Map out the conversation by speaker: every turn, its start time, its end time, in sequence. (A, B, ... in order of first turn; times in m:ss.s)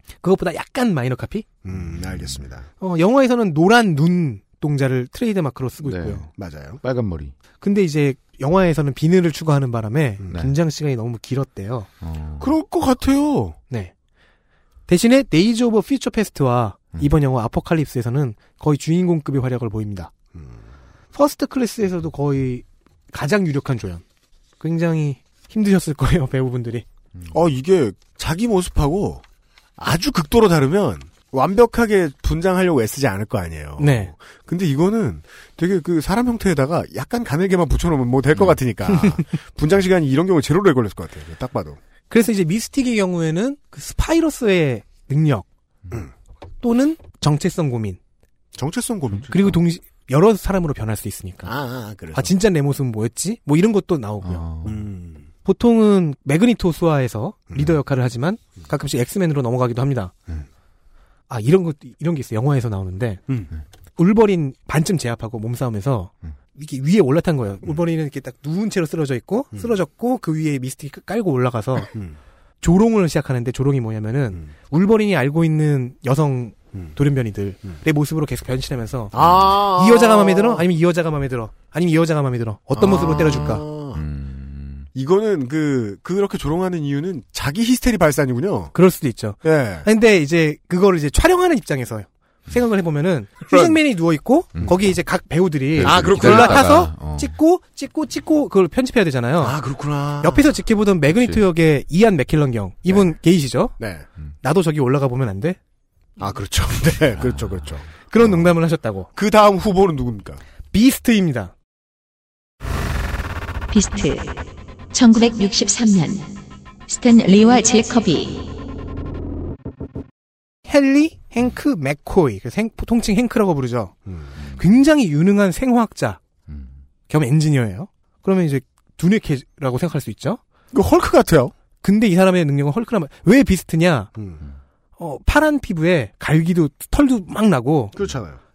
0:00.2-0:01.5 A
0:01.6-0:02.6 B
0:01.7-0:02.4 C
0:02.8-0:06.3 A
0:05.8-0:06.3 C
0:06.4-0:06.8 B
0:06.8-0:07.3 C
0:07.6-0:11.9 A
0:12.0-0:12.5 C
0:12.4-0:13.6 B
0:14.9-0:20.1 A
0:21.1-0:24.0 A
0:24.6-0:26.8 A
0:27.3-0:29.2 B
0:29.8-0:41.8 B
0:33.8-0:34.1 A
0:42.1-0:45.5 A
0:46.6-0:48.0 A
0:48.6-0:49.6 B
0:49.3-0:51.5 A
0:51.4-0:52.3 B
0:52.1-0:54.4 A
0:54.2-0:54.8 C
0:54.6-0:55.3 B
0:55.5-1:00.1 A
1:01.3-1:03.2 A
1:04.0-1:11.9 A
1:12.6-1:23.6 A
1:19.1-1:20.6 B
1:22.7-1:24.0 B
1:23.2-1:24.9 C
1:24.9-1:28.7 B
1:28.7-1:39.6 A
1:29.4-1:29.9 B
1:33.5-1:33.8 B
1:35.8-1:37.3 C
1:35.8-1:36.7 B
1:39.4-1:40.5 B
1:40.2-1:43.8 A
1:41.1-1:41.4 C
1:43.8-1:44.1 B
1:44.4-1:45.6 A
1:46.2-1:48.2 B
1:47.2-1:47.6 C
1:48.1-1:49.1 A
1:49.2-1:50.4 B
1:50.7-1:51.5 A
1:53.7-1:54.4 D
1:54.9-1:58.5 D
2:00.7-2:03.9 A
2:04.6-2:06.2 A
2:07.1-2:10.4 A
2:10.7-2:11.5 B
2:11.8-2:14.1 A
2:14.2-2:14.4 B
2:15.0-2:18.0 A
2:18.0-2:18.4 B